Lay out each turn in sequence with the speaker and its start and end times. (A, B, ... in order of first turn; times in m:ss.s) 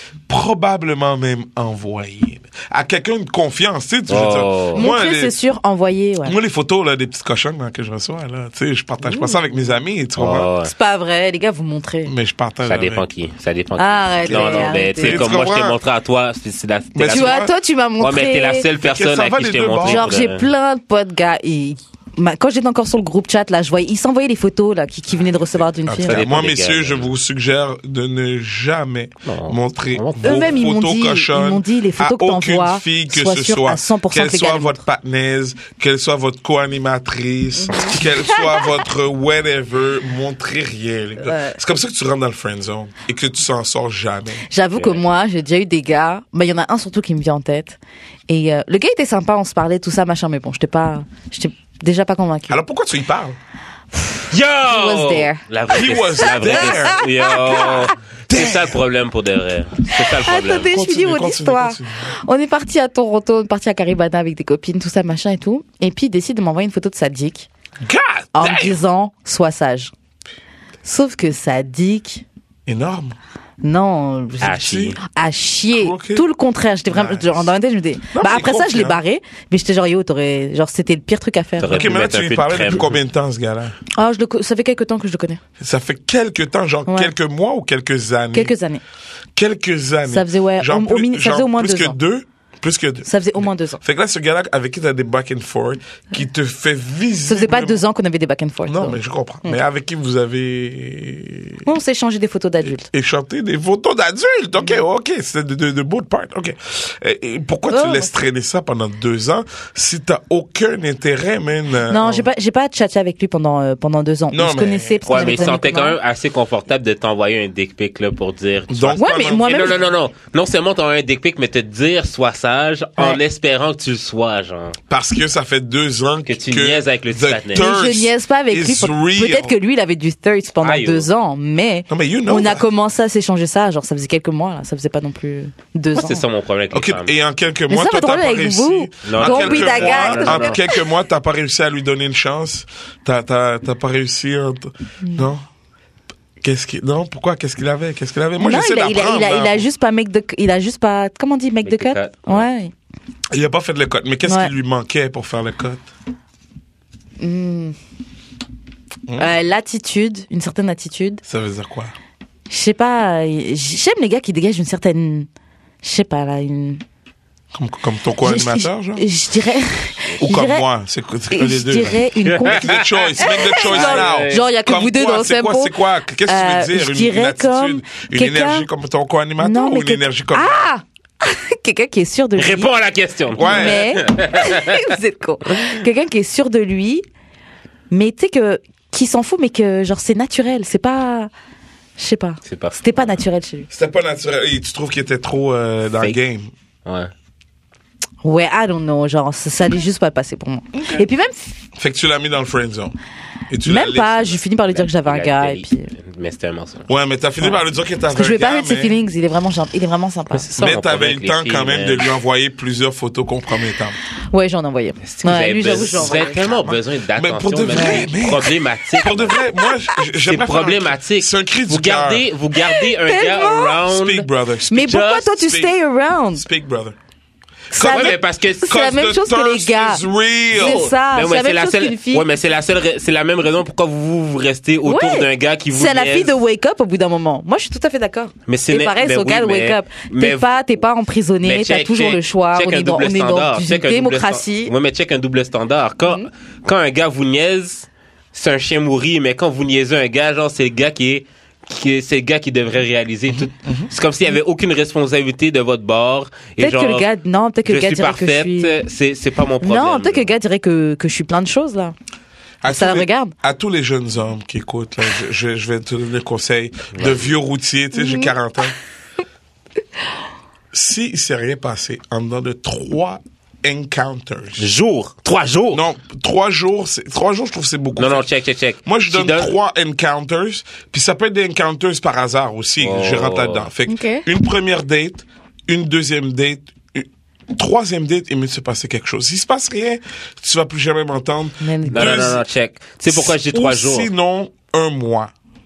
0:00.3-0:05.4 A
0:04.1-0:04.9 B
0:04.7-0:06.4 C
0:06.2-0:10.5 A
0:09.0-0:09.4 C
0:10.2-0:10.7 B
0:10.6-0:12.1 C
0:12.0-0:13.0 A
0:12.6-0:17.4 B
0:13.8-0:15.2 C
0:14.2-0:15.8 A
0:16.9-0:17.5 A
0:17.1-0:18.6 C
0:18.0-0:20.5 B
0:18.8-0:20.2 A
0:19.8-0:26.2 C
0:25.3-0:44.4 A
0:26.0-0:27.1 B
0:29.3-0:30.6 B
0:30.2-0:34.8 C
0:37.6-0:38.7 C
0:41.2-0:41.6 C
0:44.5-0:47.8 C
0:44.7-0:45.0 B
0:48.3-0:52.6 C
0:52.5-0:53.4 A
0:53.9-0:55.4 C
0:54.3-1:00.7 B
0:55.7-0:57.7 A
0:56.2-0:58.0 C
0:58.3-0:58.8 A
0:59.9-1:07.5 C
1:00.4-1:02.1 A
1:07.8-1:08.8 A
1:08.3-1:09.9 C
1:10.8-1:12.2 C
1:12.7-1:13.2 A
1:13.6-1:21.9 C
1:14.4-1:15.0 B
1:14.4-1:15.0 A
1:15.7-1:16.2 A
1:16.9-1:17.5 A
1:18.1-1:19.0 A
1:21.6-1:22.9 B
1:21.7-1:23.7 A
1:24.0-1:25.4 C
1:25.6-1:28.5 A
1:26.9-1:27.1 C
1:28.3-1:28.8 C
1:29.3-1:37.8 A
1:30.1-1:32.0 C
1:33.0-1:33.8 C
1:37.2-1:39.6 C
1:38.6-1:41.6 A
1:41.6-1:42.8 C
1:42.8-1:52.3 A
1:47.7-1:48.2 C
1:51.9-1:56.0 C
1:54.3-1:55.6 A
1:55.0-2:04.8 B
1:58.7-1:59.8 A
1:59.0-1:59.8 C
2:04.9-2:09.5 A
2:06.3-2:07.7 B
2:07.5-2:16.2 C
2:10.6-2:11.1 B
2:11.9-2:12.6 A
2:15.9-2:17.1 B
2:16.7-2:25.4 A
2:17.7-2:20.8 C
2:19.0-2:20.6 B
2:26.4-2:29.6 A
2:28.4-2:32.7 C
2:31.6-2:32.4 B
2:33.3-2:35.8 A
2:34.2-2:34.5 C
2:37.2-2:37.8 C
2:39.2-2:41.2 C
2:41.3-2:41.9 A
2:42.5-2:45.3 C
2:45.8-2:46.8 C
2:47.5-2:49.1 A
2:48.2-2:50.6 C
2:50.2-3:00.6 A
2:51.3-2:58.7 C
2:52.3-2:54.5 B
2:59.4-3:02.7 C
3:02.4-3:04.9 B
3:03.3-3:04.0 A
3:03.4-3:07.0 C
3:07.9-3:11.3 C
3:12.0-3:13.7 C
3:12.5-3:13.2 B
3:13.7-3:16.5 A
3:16.8-3:17.1 B
3:18.2-3:21.6 C
3:21.8-3:23.0 A
3:23.5-3:24.4 A
3:23.6-3:25.9 C
3:24.7-3:26.9 B
3:26.9-3:28.9 A
3:28.1-3:30.4 C
3:30.3-3:32.2 B
3:30.6-3:34.0 A
3:34.3-3:36.6 C
3:35.0-3:39.4 B
3:35.9-3:42.2 A
3:37.7-3:38.1 C
3:40.2-3:44.3 B
3:42.6-3:43.8 C
3:43.8-3:45.7 A
3:44.7-3:46.4 C
3:44.8-3:45.2 B
3:46.3-3:47.0 A
3:47.7-3:50.0 C
3:47.8-3:50.9 A
3:47.8-3:48.7 B
3:50.5-3:52.2 C
3:50.5-3:56.4 B
3:54.8-4:04.7 C
3:58.5-4:00.5 B
4:01.4-4:17.1 B
4:13.3-4:13.9 A
4:16.6-4:18.8 C
4:17.6-4:20.3 B
4:19.6-4:21.9 C
4:22.6-4:28.7 A
4:22.6-4:23.3 C
4:26.9-4:27.2 B
4:28.0-4:28.3 C
4:30.7-4:34.7 A
4:34.6-4:35.8 B
4:35.7-4:38.3 A
4:38.0-4:39.5 B
4:38.8-4:52.4 A
4:42.8-4:43.7 B
4:43.9-4:44.2 C
4:51.6-4:52.4 C
4:51.9-4:54.1 B
4:53.1-4:55.3 A